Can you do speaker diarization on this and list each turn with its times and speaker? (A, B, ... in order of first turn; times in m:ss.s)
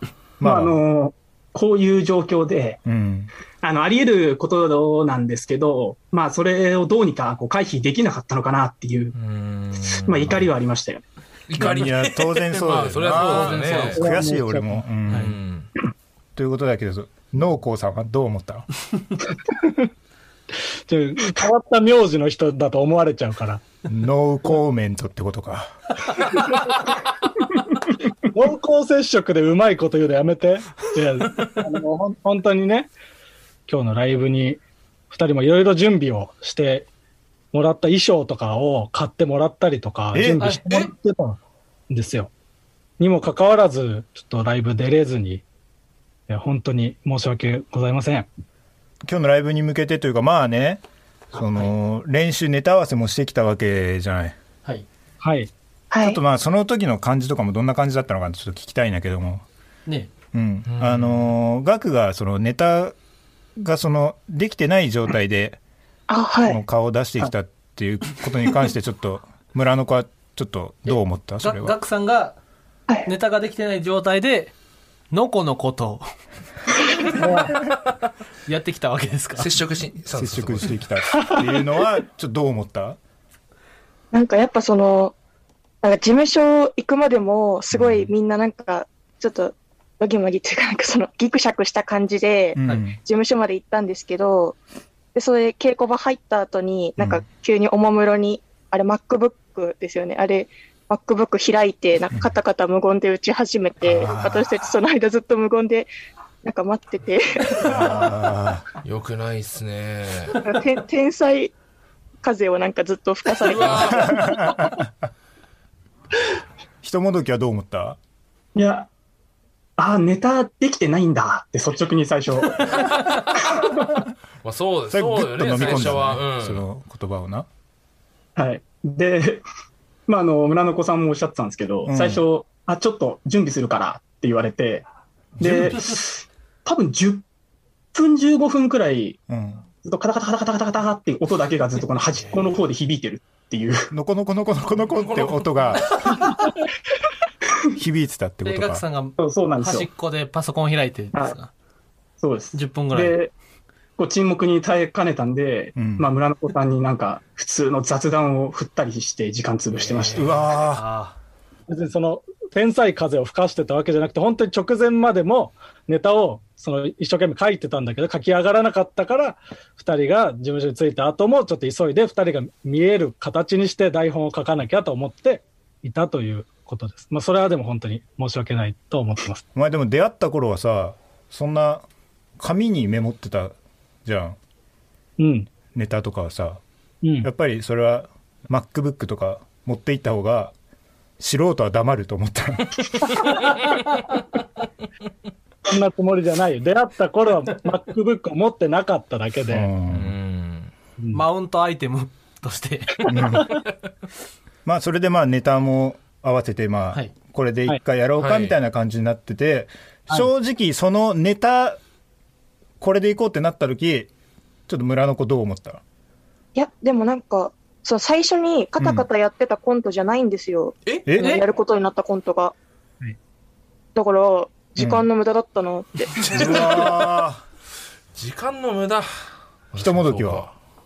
0:00.4-0:00.8 A
0:00.4-0:02.8 B
0:02.8-0:03.3 A
0:03.6-0:09.2 B
0:09.2-0:10.4 C
0:10.0-0:11.0 B
0:11.5-0:14.0 C
0:11.6-0:15.4 A
0:13.1-0:14.1 D
0:13.9-0:14.8 E
0:15.1-0:15.7 C
0:16.4-0:18.7 A
0:19.5-0:19.9 E
0:20.9-0:23.6 E
0:23.9-0:25.9 A
0:28.3-0:32.9 E
0:33.7-0:36.9 E
0:37.5-0:42.3 E
0:40.1-0:40.6 A
0:43.0-0:45.4 E
0:46.3-0:48.3 E
0:49.1-0:54.4 A
0:55.2-0:55.5 E
0:55.9-0:56.2 F
0:56.0-0:59.4 A
0:59.9-1:00.1 D
1:00.3-1:03.0 A
1:00.6-1:01.3 C
1:03.6-1:05.6 A
1:06.1-1:06.6 F
1:06.5-1:11.8 A
1:10.9-1:12.4 D
1:13.1-1:14.5 D
1:15.1-1:16.0 D
1:17.2-1:17.6 E
1:18.5-1:19.5 D
1:19.4-1:20.8 C
1:20.1-1:23.0 A
1:24.1-1:25.1 F
1:25.8-1:34.6 F
1:27.7-1:28.1 A
1:32.6-1:33.0 A
1:35.1-1:45.9 F
1:37.0-1:37.2 A
1:43.8-1:44.5 A
1:46.4-1:48.0 F
1:47.6-1:48.6 A
1:48.8-1:50.4 C
1:50.4-1:51.5 F
1:52.2-1:54.2 F
1:53.4-1:54.1 C
1:53.7-1:54.9 A
1:56.8-1:58.0 A
1:58.6-1:58.9 B
1:59.8-2:02.7 B
2:04.4-2:06.6 C
2:04.9-2:07.5 A
2:08.4-2:09.4 B
2:10.1-2:14.9 B
2:11.9-2:12.2 A
2:15.4-2:17.2 B
2:15.4-2:15.8 A
2:17.9-2:19.2 B
2:19.3-2:19.6 A
2:19.8-2:23.9 B
2:23.9-2:25.9 A
2:24.9-2:26.0 C
2:27.8-2:28.8 A
2:28.4-2:31.5 D
2:29.2-2:29.9 B
2:32.2-2:33.3 B
2:32.5-2:33.2 D
2:34.0-2:40.3 B
2:35.8-2:36.1 A
2:39.8-2:41.2 D
2:40.2-2:40.8 A
2:41.7-2:59.4 E
2:59.6-3:01.8 A
3:02.4-3:04.4 A
3:05.2-3:05.5 E
3:05.7-3:06.6 A
3:07.0-3:07.3 E
3:07.2-3:10.5 A
3:11.2-3:12.8 A
3:15.6-3:19.7 E
3:19.5-3:20.1 A
3:19.9-3:20.7 C
3:21.1-3:23.4 D
3:23.1-3:23.6 A
3:24.6-3:31.8 A
3:28.2-3:28.6 C
3:32.8-3:34.1 A
3:34.7-3:35.8 A
3:36.6-3:42.5 F
3:38.8-3:39.1 A
3:41.1-3:41.4 A
3:41.2-3:41.4 D
3:43.9-3:46.9 F
3:44.8-3:45.1 A
3:46.3-3:47.4 A
3:48.1-3:49.1 C
3:49.7-3:50.5 C
3:49.7-3:50.5 A